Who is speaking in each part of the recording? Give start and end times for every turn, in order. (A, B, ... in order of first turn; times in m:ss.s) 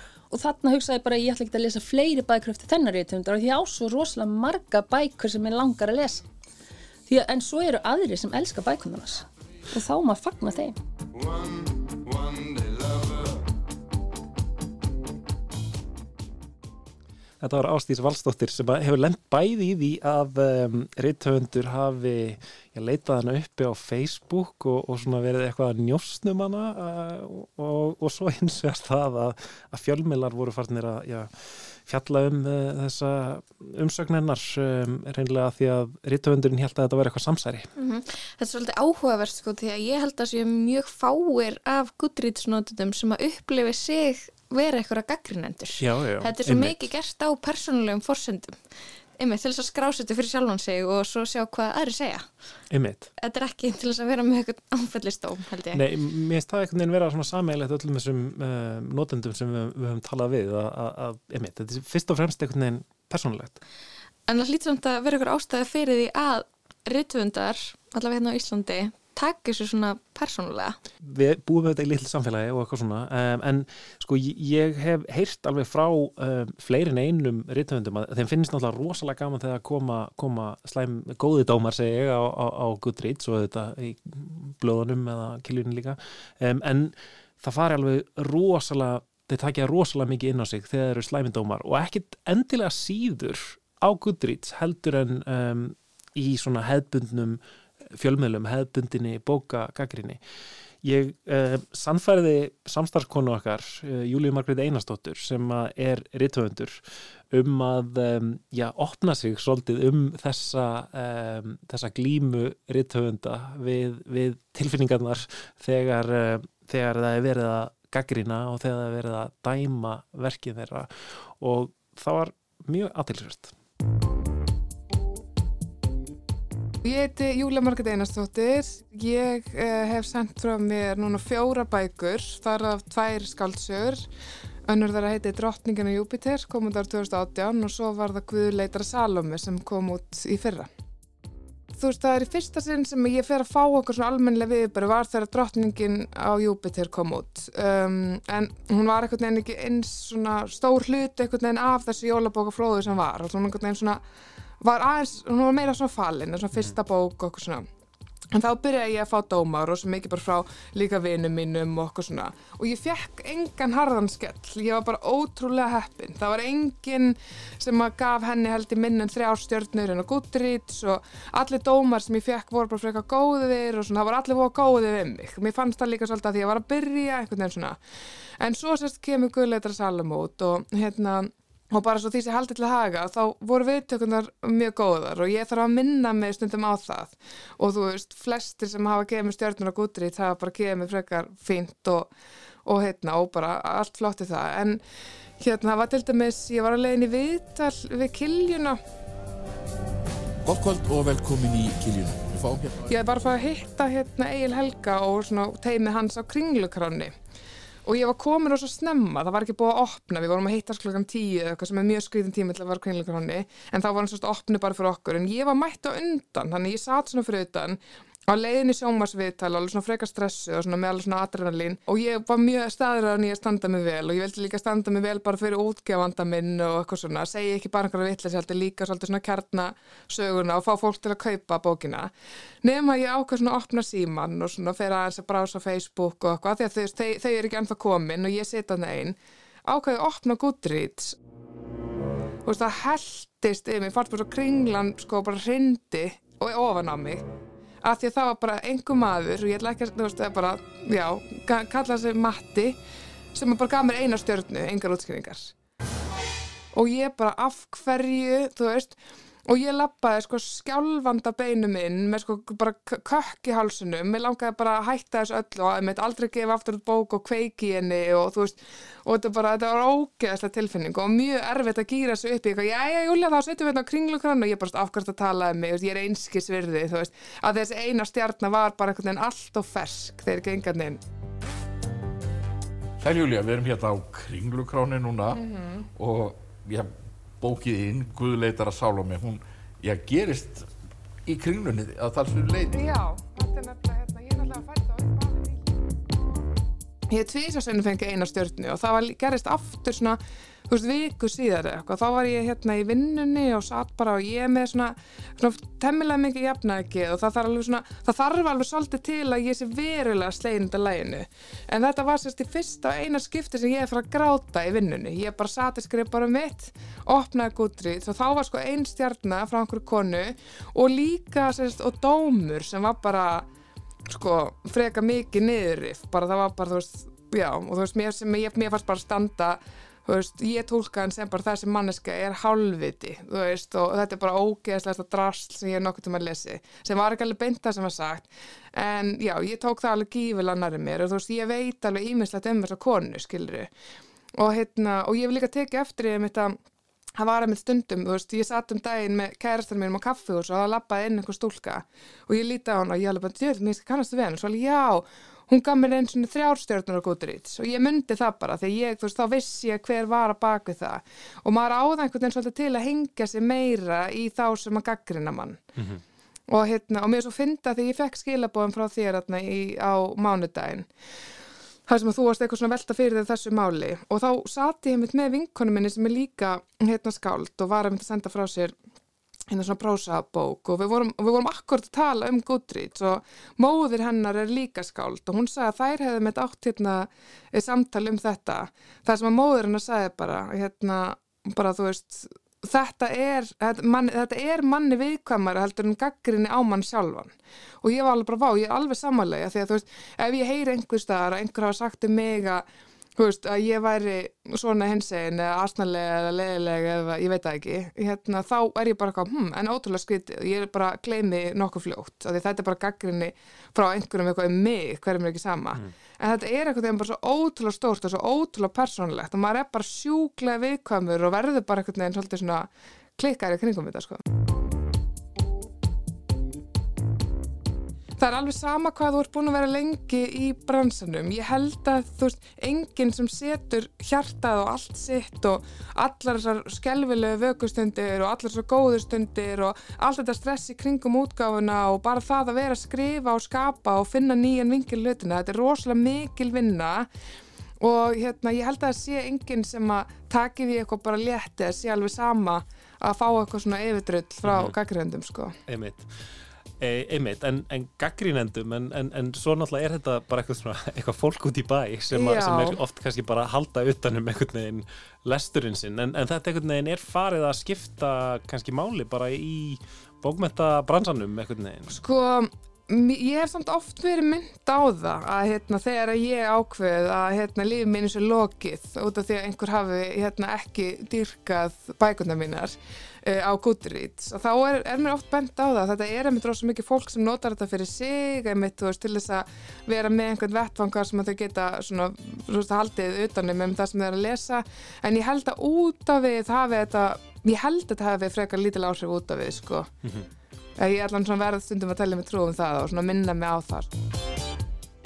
0:00.3-0:06.2 A
0:07.1-0:10.8 A
0:17.4-0:31.3 B
0:31.9-0:37.7 B
0:37.8-0:48.6 C
0:45.8-0:46.8 B
0:49.2-0:52.3 C
0:52.7-0:53.1 B
0:53.2-0:55.8 C
0:55.7-1:03.6 B
1:04.3-1:10.8 C
1:11.0-1:37.4 B
1:38.0-1:40.2 B
1:40.8-2:03.5 B
2:06.8-2:14.1 D
2:14.7-2:20.7 D
2:21.8-2:34.0 D
2:34.6-2:37.7 D
2:38.3-2:57.8 D
2:58.4-3:12.1 D
3:12.7-3:14.8 D
3:15.4-3:18.8 D
3:20.4-3:22.9 E
3:22.9-3:27.1 D
3:27.8-3:52.1 D
3:52.6-4:01.2 D
4:02.5-4:07.2 D
4:07.8-4:12.8 D
4:13.3-4:15.5 D
4:16.7-4:41.0 D
4:43.0-4:45.4 E
4:45.4-4:45.8 D
4:46.0-4:50.7 E
4:51.3-4:52.9 E
4:52.7-4:55.6 D
4:57.1-5:23.5 D
5:24.1-5:43.7 D
5:44.4-5:46.6 D
5:47.2-6:05.6 D
6:06.5-6:10.9 D
6:11.9-6:18.8 D
6:19.5-6:42.7 D
6:43.2-7:04.2 D
7:08.2-7:27.1 D
7:27.8-7:35.6 D
7:34.4-7:34.8 B
7:35.7-7:36.1 B
7:36.8-7:52.0 B
7:42.1-7:42.8 D
7:51.9-8:19.9 D
8:20.8-8:23.9 D